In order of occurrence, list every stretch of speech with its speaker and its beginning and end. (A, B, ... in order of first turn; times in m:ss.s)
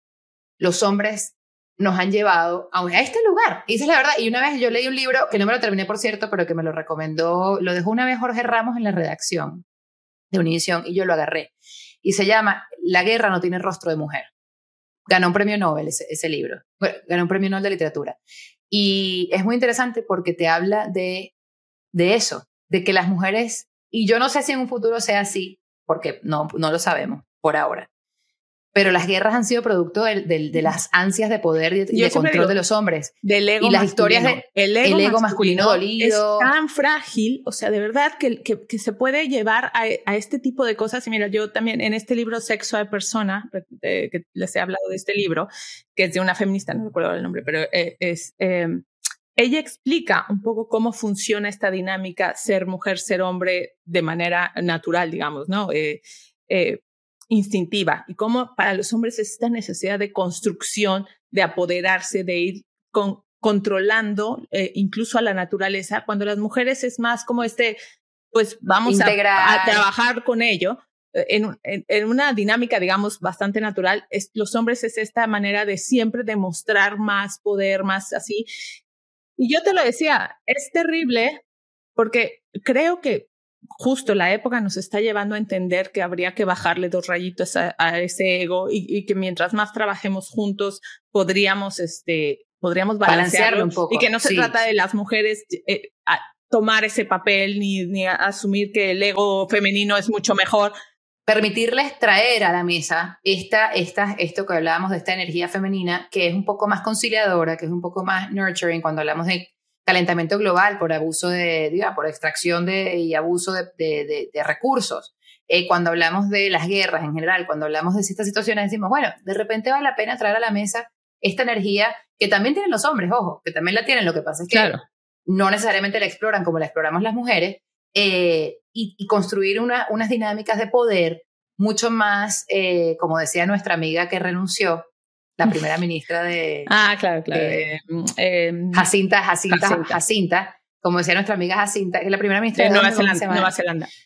0:00.6-0:09.6 A
0:10.3-0:14.3 A
0:15.1-0:18.2 A
0:18.7-0:21.3 A
0:21.9-0:27.9 A
0:28.7-0:36.5 A
0:31.9-0:32.6 B
0:33.2-0:48.8 B
0:49.4-1:07.8 B
1:08.3-1:18.5 B
1:08.9-1:09.8 A
1:19.4-1:21.4 B
1:22.0-1:40.7 B
1:33.0-1:34.5 A
1:41.3-2:16.7 A
2:04.5-2:04.8 B
2:16.7-2:18.9 B
2:17.3-2:17.7 A
2:18.7-2:23.5 A
2:19.5-2:20.0 B
2:22.6-2:23.9 B